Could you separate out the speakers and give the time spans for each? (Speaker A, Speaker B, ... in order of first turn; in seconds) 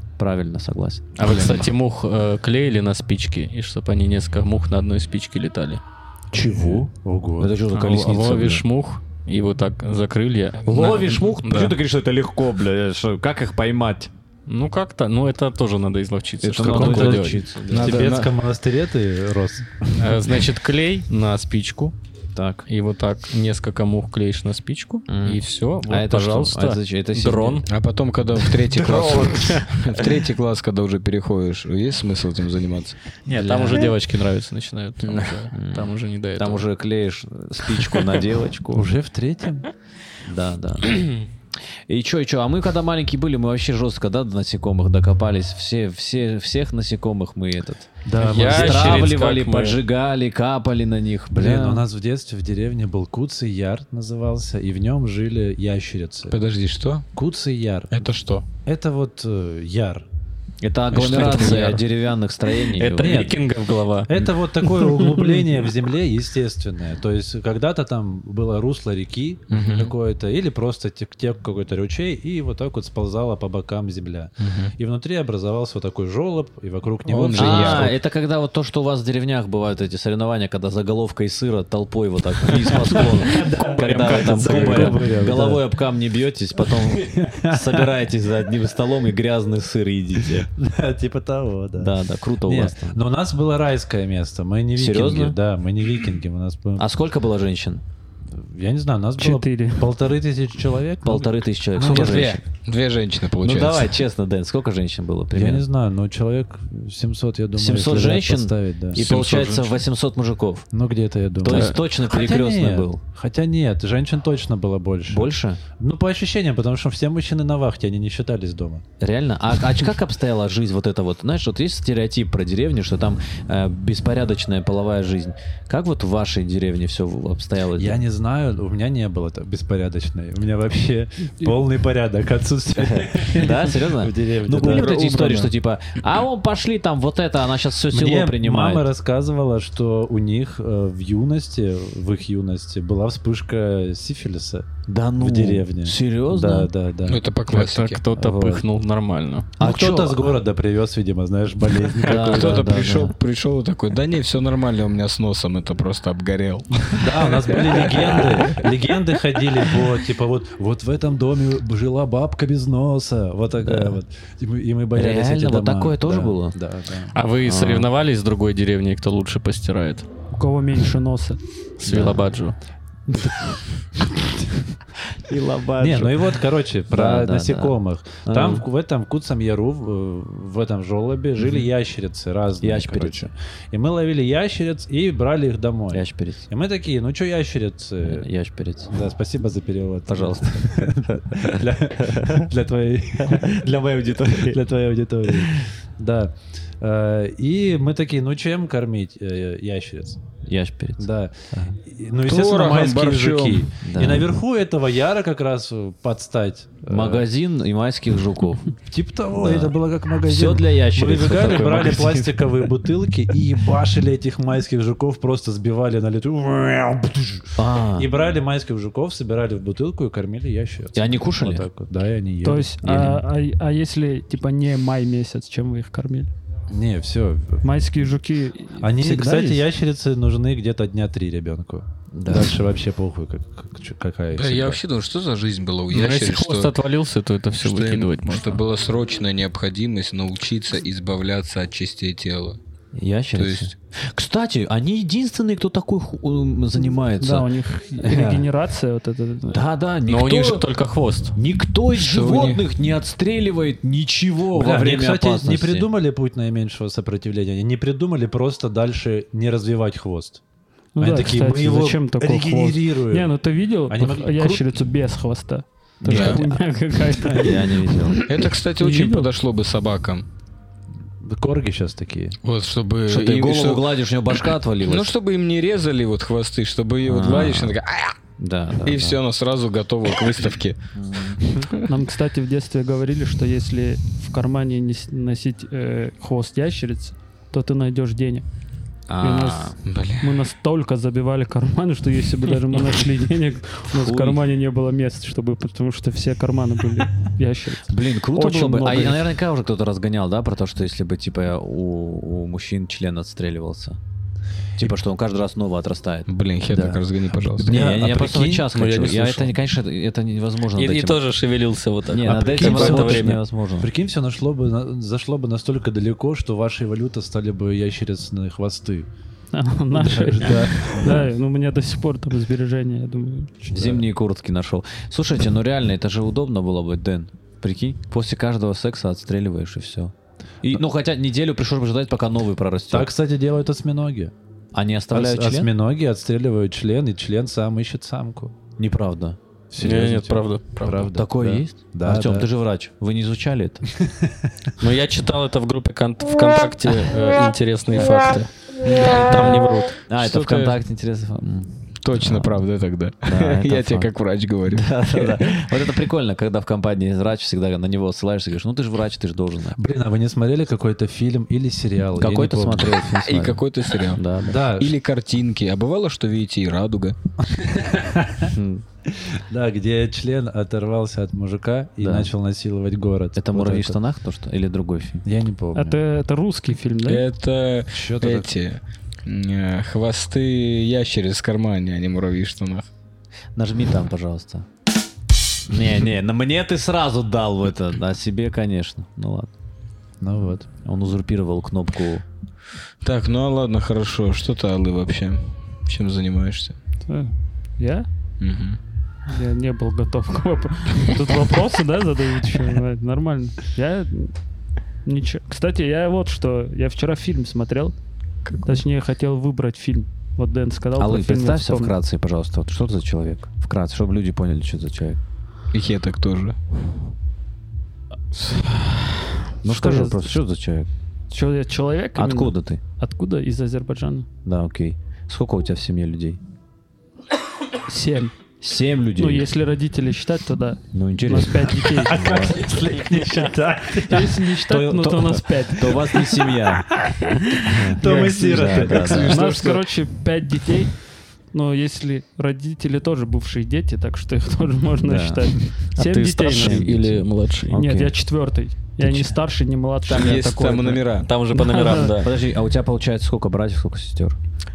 Speaker A: 0.2-1.7, 6.3-6.9, 7.4-8.6, 10.6-14.1, 16.4-17.9, 22.3-22.6, 25.1-27.6, 28.7-29.4, 33.3-33.9, 35.5-38.9, 40.2-41.1, 41.9-51.8, 60.6-63.3, 77.3-90.5, 91.8-93.0, 94.8-95.4, 96.8-97.8, 101.0-102.4, 103.4-105.6, 107.5-110.7, 111.4-113.0, 115.1-115.6, 119.0-128.0, 132.7-138.8, 144.9-146.7, 149.6-150.3, 152.0-153.2, 163.7-164.0, 164.9-166.6, 167.4-167.9, 171.8-172.3, 173.1-173.4, 175.1-176.3, 176.9-178.7, 182.6-183.3, 185.9-186.5, 188.0-189.0, 190.1-192.5, 193.2-194.6, 195.2-195.7, 200.4-201.8, 203.8-204.3, 206.9-208.7, 209.3-212.4, 217.6-218.1, 220.9-221.7, 222.8-223.2, 229.0-229.6, 232.1-232.6, 242.9-248.5, 249.5-250.7, 251.3-255.9, 266.0-266.5, 267.3-268.3, 273.1-275.1, 277.0-277.8, 278.4-279.2, 280.9-281.4, 289.1-289.8, 293.9-294.4, 297.8-304.0, 304.8-307.0, 307.6-311.2, 312.1-313.9, 323.7-333.1, 334.7-335.7, 338.8-339.4, 341.1-343.9, 350.1-352.5, 353.2-354.1, 354.7-359.8, 362.1-364.6, 368.4-368.9, 372.0-372.3, 373.3-375.2, 383.6-384.7, 385.7-389.5, 390.8-392.2, 411.0-415.2, 419.6-420.9, 422.1-422.8, 424.4-426.4, 428.6-429.5, 430.9-432.7, 434.6-436.9, 437.6-439.4, 445.0-445.5, 446.5-448.1, 449.0-449.3, 452.1-454.4
Speaker B: 1.2-5.8, 7.7-11.8, 14.5-18.3, 20.0-21.9, 22.7-27.7, 28.8-29.9, 33.3-36.6, 37.8-38.2, 48.2-49.8, 60.9-61.8, 62.7-64.3, 84.1-84.9, 108.9-109.8, 111.5-111.7, 147.5-149.5, 167.1-170.1, 171.8-172.6, 235.9-238.6, 250.1-251.3, 298.4-299.2, 308.7-309.5, 310.7-313.4, 339.8-341.1, 344.8-350.0, 445.9-447.8, 451.2-452.3
Speaker C: 1.2-1.7, 10.7-11.0, 17.7-18.3, 27.7-33.0, 35.0-35.3, 56.3-57.1, 57.9-58.5, 60.9-61.8, 69.5-69.9, 74.4-74.7, 77.0-77.9, 101.8-104.0, 134.5-135.5, 147.0-148.0, 152.1-158.7, 202.2-203.7, 234.3-236.7, 237.6-242.6, 243.3-243.7, 251.9-252.6, 266.1-266.4, 268.2-270.2, 272.4-274.0, 274.8-278.2, 278.8-280.8, 281.3-281.7, 289.8-290.4, 306.3-307.9, 350.2-350.7, 352.0-355.6, 363.0-364.2, 364.8-367.1, 377.0-382.9, 393.0-396.8, 398.4-398.8, 408.4-408.8, 415.7-416.6, 438.9-439.8, 450.1-451.3
Speaker D: 6.3-7.5, 16.5-20.2, 38.7-39.7, 48.0-49.0, 51.3-56.4, 57.1-58.1, 58.6-60.0, 63.0-63.3, 64.1-77.9, 82.9-85.7, 87.0-87.9, 90.4-91.9, 92.4-96.8, 98.3-102.4, 105.3-109.0, 110.7-118.8, 127.8-135.0, 137.9-144.7, 145.2-147.2, 148.2-148.6, 149.6-152.7, 156.9-167.2, 175.8-188.3, 188.9-193.7, 194.3-200.2, 201.0-207.3, 208.9-222.8, 226.7-227.6, 228.8-234.8, 254.5-260.4, 261.0-263.3, 263.9-264.7, 267.2-267.6, 271.2-272.4, 307.6-308.7, 312.2-319.1, 319.9-321.3, 323.7-324.0, 332.9-334.3, 335.1-338.6, 339.7-342.5, 344.0-344.3, 359.7-362.9, 364.4-364.9, 367.5-368.5, 369.1-374.0, 375.2-376.0, 377.9-378.5, 390.2-390.7, 431.8-434.4, 437.0-439.3
Speaker E: 99.2-99.9, 170.3-171.4, 222.4-226.3, 227.6-229.2, 247.2-249.6, 260.9-268.1, 268.8-269.3, 281.8-288.4, 289.2-297.9, 319.5-323.7, 375.7-377.2, 397.1-398.1, 399.3-404.3, 405.0-407.9, 408.6-411.9, 418.3-420.3, 421.3-424.3, 427.9-428.4, 429.2-432.5, 434.0-436.1, 438.0-446.9, 447.7-452.1